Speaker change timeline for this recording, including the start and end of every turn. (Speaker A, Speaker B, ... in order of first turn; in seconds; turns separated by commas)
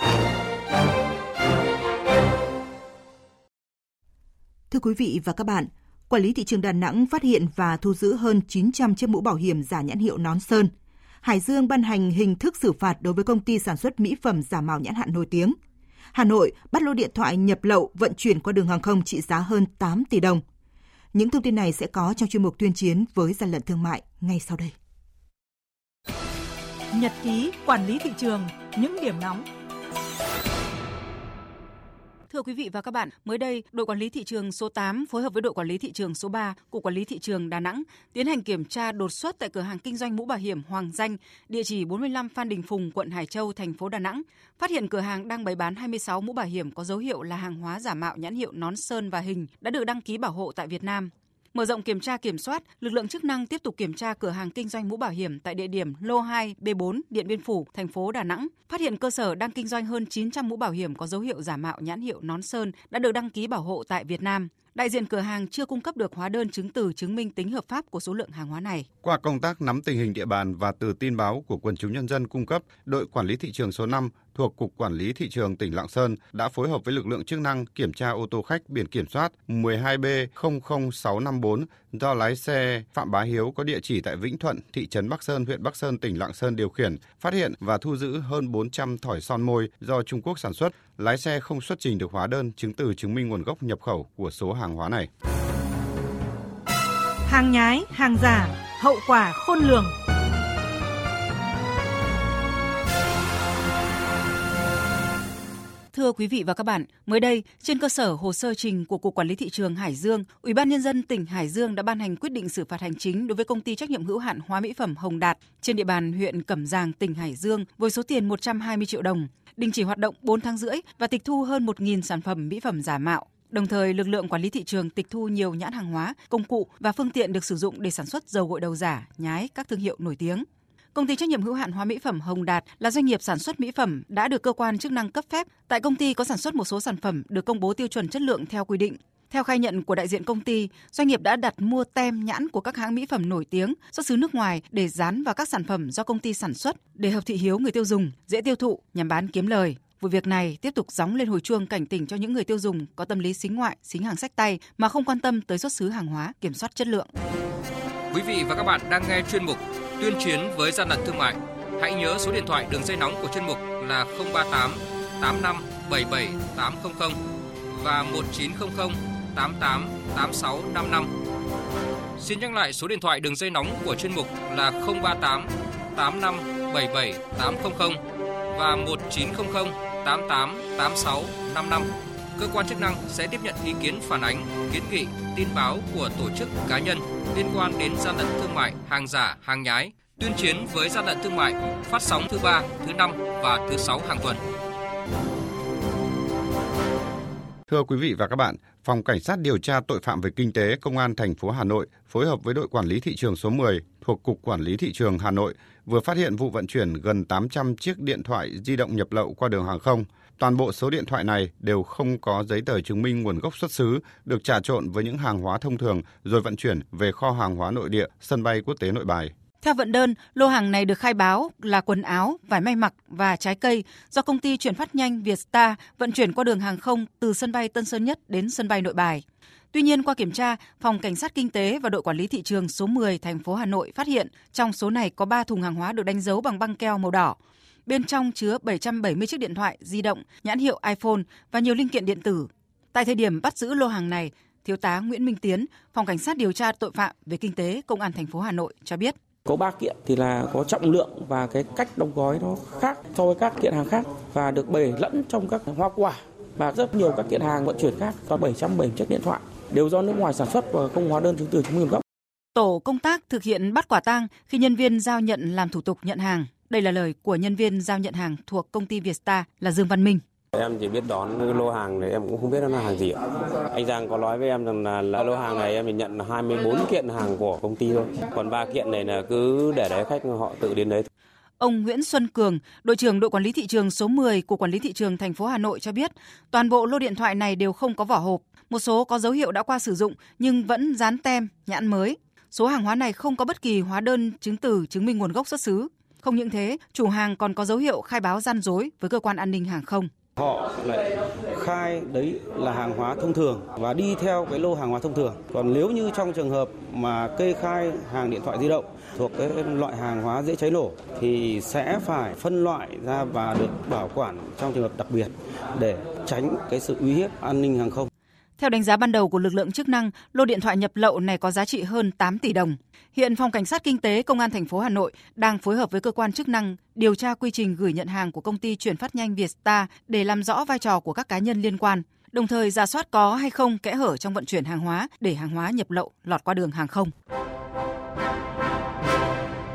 Speaker A: 4.7-10.7, Speaker A: 11.2-15.6, Speaker A: 16.1-20.4, Speaker A: 21.1-24.7, Speaker B: 26.9-29.4, Speaker C: 32.3-68.9, Speaker D: 69.0-95.1, Speaker B: 97.3-99.9, Speaker C: 105.9-157.1, Speaker E: 158.1-167.2, Speaker E: 167.7-171.1, Speaker E: 172.2-178.0, Speaker E: 178.5-194.4, Speaker D: 197.7-219.3, Speaker C: 219.6-249.1, Speaker F: 249.5-262.0, Speaker C: 262.5-270.2, Speaker G: 270.5-281.1, Speaker C: 281.6-300.1, Speaker H: 300.4-318.1, Speaker C: 318.6-337.1